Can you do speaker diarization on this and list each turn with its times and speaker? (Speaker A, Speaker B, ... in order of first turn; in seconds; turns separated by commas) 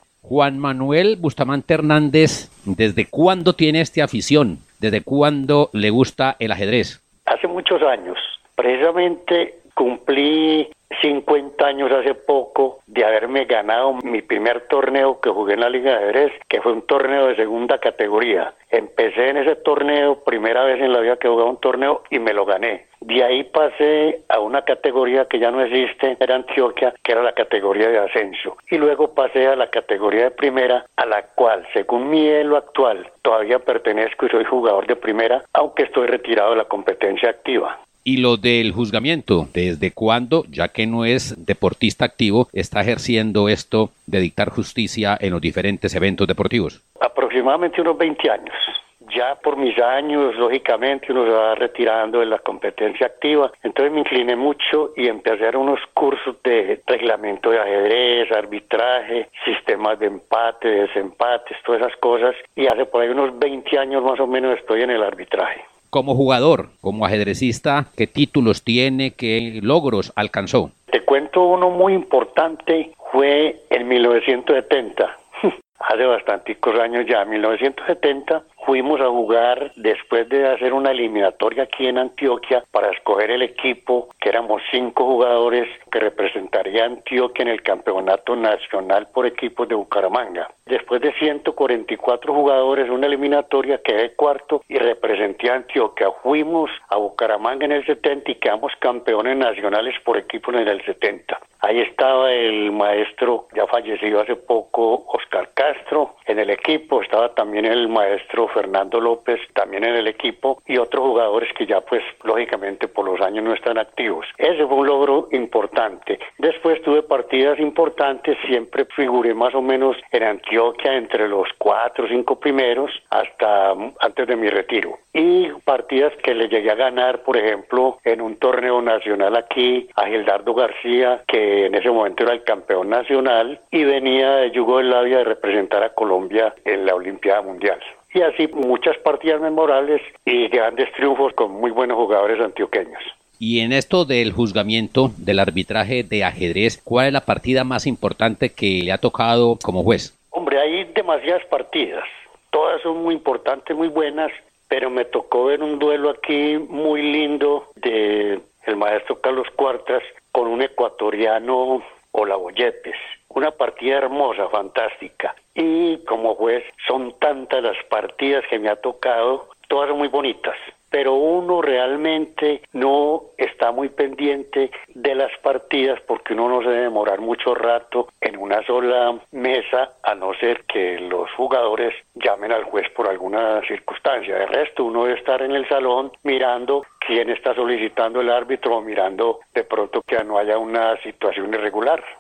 Speaker A: 0.2-7.0, Speaker B: 7.3-37.8, Speaker A: 38.0-46.8, Speaker B: 47.0-65.6, Speaker A: 65.9-70.7, Speaker B: 70.9-75.2, Speaker B: 75.8-143.1, Speaker A: 143.4-150.1, Speaker B: 150.3-192.0